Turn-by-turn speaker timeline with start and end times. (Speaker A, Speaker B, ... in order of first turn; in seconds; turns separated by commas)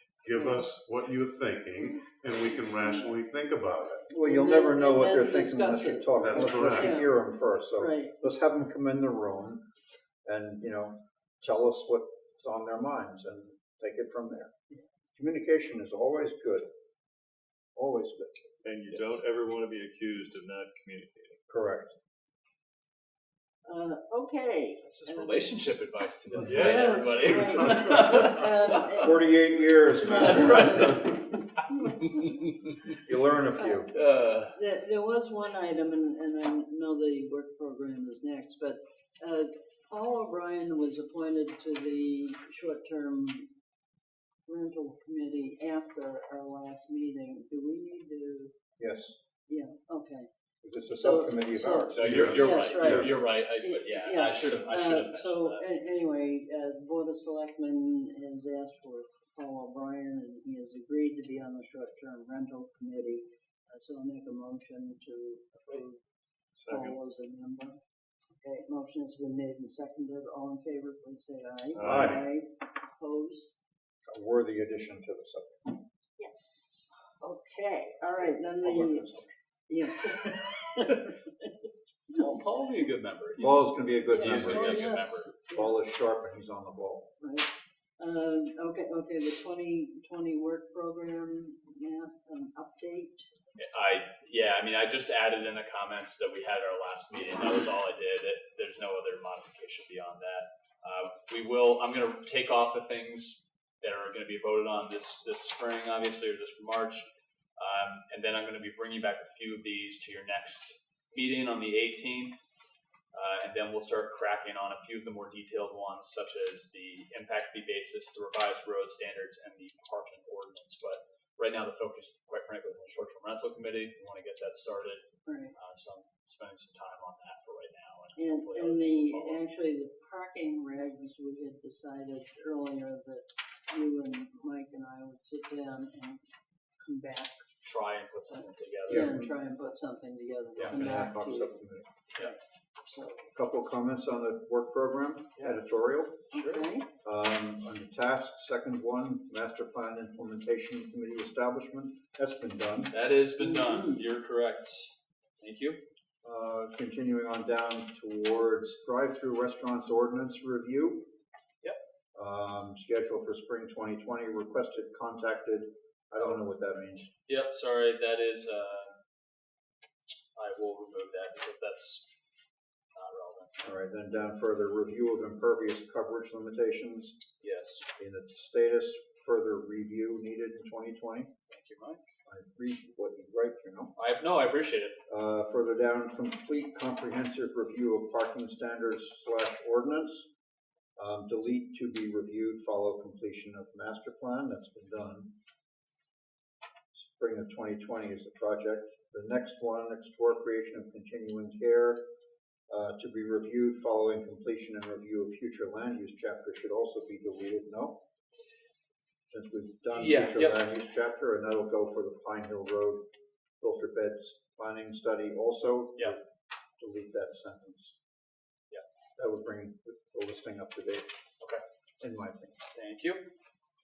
Speaker A: 0.2-4.1, Speaker B: 4.1-7.1, Speaker C: 4.1-9.6, Speaker A: 6.2-7.0, Speaker B: 7.8-8.2, Speaker C: 10.2-14.5, Speaker C: 15.2-16.7, Speaker C: 17.8-18.5, Speaker D: 18.6-21.4, Speaker C: 21.5-21.9, Speaker B: 23.7-25.6, Speaker E: 24.8-28.8, Speaker B: 26.4-31.2, Speaker D: 26.5-27.2, Speaker C: 29.0-30.9, Speaker E: 30.1-31.6, Speaker B: 31.7-32.3, Speaker C: 33.0-33.9, Speaker B: 33.6-33.9, Speaker E: 33.9-34.6, Speaker B: 34.5-43.5, Speaker B: 44.5-48.5, Speaker C: 48.8-49.2, Speaker B: 49.5-50.3, Speaker C: 50.6-53.2, Speaker B: 50.9-66.0, Speaker E: 52.0-55.6, Speaker A: 52.0-52.4, Speaker D: 66.5-67.0, Speaker B: 66.7-67.8, Speaker B: 68.3-73.5, Speaker D: 71.8-72.2, Speaker C: 71.8-72.2, Speaker C: 74.1-75.8, Speaker B: 76.2-79.1, Speaker C: 78.2-79.3, Speaker B: 79.7-81.5, Speaker E: 82.1-85.3, Speaker C: 83.4-85.0, Speaker B: 84.1-85.8, Speaker C: 85.5-87.1, Speaker B: 87.2-93.2, Speaker E: 93.6-112.4, Speaker E: 113.1-129.4, Speaker B: 125.3-125.5, Speaker B: 128.2-136.2, Speaker B: 136.8-137.4, Speaker E: 137.6-139.2, Speaker B: 138.9-141.6, Speaker C: 138.9-139.3, Speaker C: 140.7-141.9, Speaker B: 142.2-143.3, Speaker C: 143.3-146.2, Speaker E: 146.3-146.6, Speaker B: 146.3-146.9, Speaker C: 147.0-152.9, Speaker E: 152.9-155.8, Speaker B: 153.4-154.0, Speaker C: 156.2-161.1, Speaker C: 162.1-167.1, Speaker E: 167.3-169.0, Speaker E: 170.4-172.1, Speaker E: 172.9-173.5, Speaker C: 173.6-177.2, Speaker E: 177.4-177.9, Speaker C: 178.0-181.3, Speaker E: 181.5-182.0, Speaker C: 182.3-183.9, Speaker E: 184.0-185.0, Speaker C: 185.1-190.3, Speaker C: 191.0-195.3, Speaker C: 196.9-202.0, Speaker C: 202.7-208.0, Speaker C: 209.3-213.1, Speaker E: 209.9-210.6, Speaker C: 213.6-216.2, Speaker C: 216.8-217.9, Speaker C: 219.2-221.1, Speaker C: 222.0-222.6, Speaker E: 222.7-223.3